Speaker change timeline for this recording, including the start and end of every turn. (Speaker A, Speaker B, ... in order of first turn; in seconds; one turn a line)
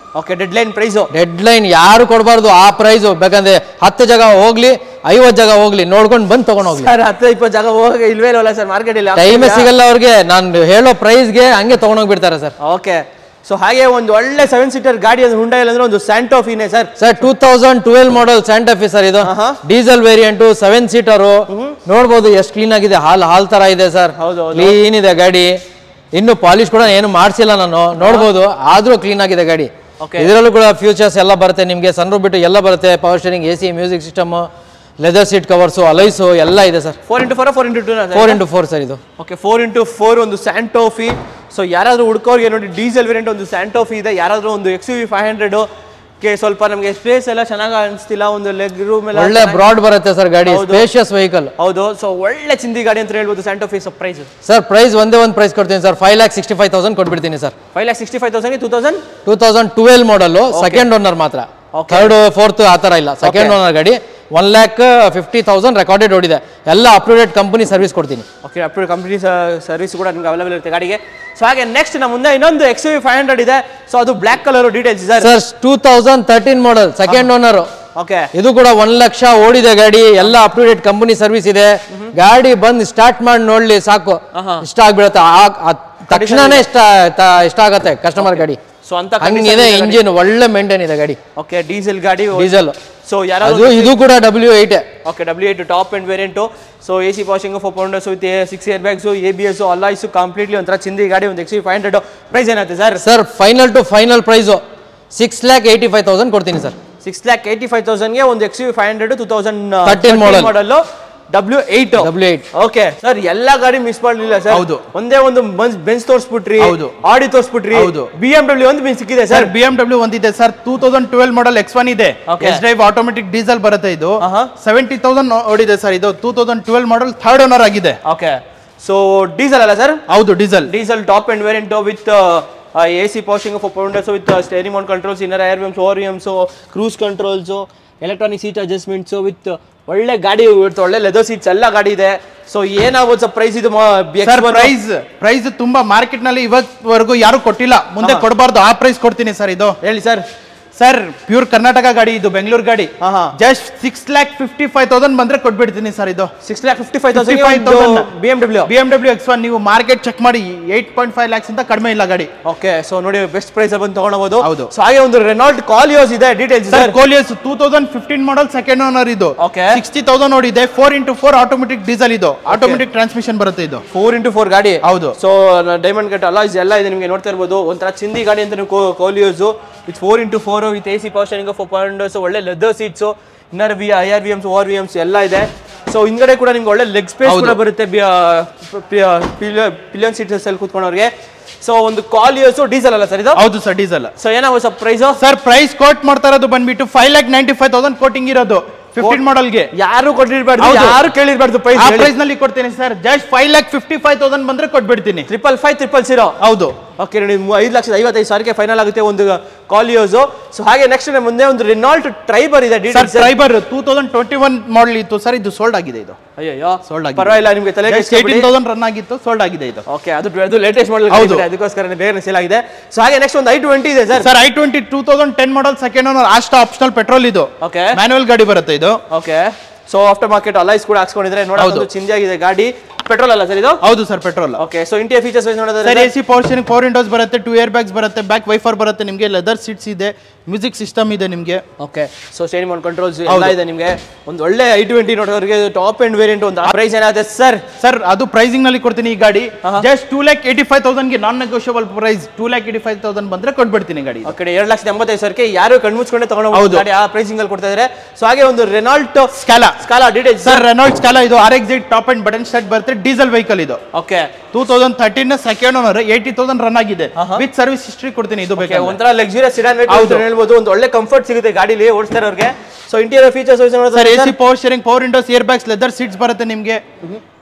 Speaker A: 0.1-1.1
Speaker B: 1.1-6.9
Speaker A: 6.7-9.7
Speaker B: 9.2-12.5
Speaker A: 12.6-16.9
Speaker B: 17.0-25.6
Speaker A: 19.2-19.6
Speaker A: 21.5-21.8
Speaker A: 24.2-24.8
Speaker B: 26.1-34.5
Speaker A: 28.0-28.3
Speaker A: 30.0-30.3
Speaker B: 35.0-37.0
Speaker A: 37.1-38.4
Speaker B: 38.1-39.0
Speaker A: 39.2-45.7
Speaker A: 46.2-49.7
Speaker B: 49.1-51.5
Speaker A: 50.5-50.9
Speaker A: 51.6-54.3
Speaker B: 54.5-57.5
Speaker A: 57.7-59.0
Speaker B: 59.3-68.3
Speaker A: 60.5-60.9
Speaker A: 61.7-62.1
Speaker A: 63.2-63.6
Speaker A: 68.4-75.3
Speaker B: 75.2-77.7
Speaker A: 78.0-78.3
Speaker B: 78.3-88.6
Speaker A: 84.3-84.7
Speaker A: 86.1-86.7
Speaker A: 88.2-90.0
Speaker B: 89.2-91.2
Speaker A: 91.4-92.5
Speaker B: 92.3-92.8
Speaker A: 93.0-93.9
Speaker B: 93.4-94.9
Speaker A: 95.0-103.0
Speaker B: 103.0-106.8
Speaker A: 107.0-119.5
Speaker B: 109.9-110.5
Speaker B: 112.0-112.5
Speaker C: 114.5-114.9
Speaker C: 116.6-117.0
Speaker C: 117.7-118.1
Speaker C: 119.3-128.0
Speaker A: 122.3-122.6
Speaker A: 124.2-124.5
Speaker A: 128.1-130.0
Speaker C: 130.1-130.7
Speaker A: 130.7-144.7
Speaker C: 144.2-149.8
Speaker A: 149.8-150.2
Speaker C: 150.8-156.3
Speaker A: 153.0-153.3
Speaker A: 156.4-158.7
Speaker C: 157.1-158.1
Speaker C: 158.7-162.3
Speaker A: 162.4-167.0
Speaker C: 164.4-164.7
Speaker C: 166.7-173.8
Speaker A: 169.4-169.8
Speaker A: 172.5-172.8
Speaker A: 173.9-191.1
Speaker C: 174.8-175.2
Speaker C: 187.2-187.6
Speaker A: 191.6-193.4
Speaker C: 193.3-194.1
Speaker A: 194.2-195.2
Speaker C: 195.2-199.7
Speaker A: 199.7-202.1
Speaker C: 200.6-201.0
Speaker C: 201.7-205.3
Speaker A: 205.3-206.4
Speaker C: 206.4-206.8
Speaker A: 207.0-213.3
Speaker C: 212.9-216.2
Speaker A: 216.4-218.5
Speaker C: 216.8-219.8
Speaker A: 219.9-224.3
Speaker C: 221.1-221.5
Speaker C: 224.2-229.0
Speaker A: 227.6-228.0
Speaker A: 229.1-233.8
Speaker C: 231.6-231.9
Speaker C: 233.8-234.6
Speaker A: 234.6-236.1
Speaker C: 235.8-241.6
Speaker A: 241.8-247.7
Speaker C: 243.3-243.6
Speaker C: 247.8-254.3
Speaker A: 254.2-260.6
Speaker C: 256.5-256.9
Speaker C: 259.4-259.8
Speaker C: 260.4-263.8
Speaker A: 263.9-264.3
Speaker C: 264.5-269.0
Speaker A: 267.2-267.4
Speaker A: 268.6-274.3
Speaker C: 269.9-270.2
Speaker C: 273.9-276.8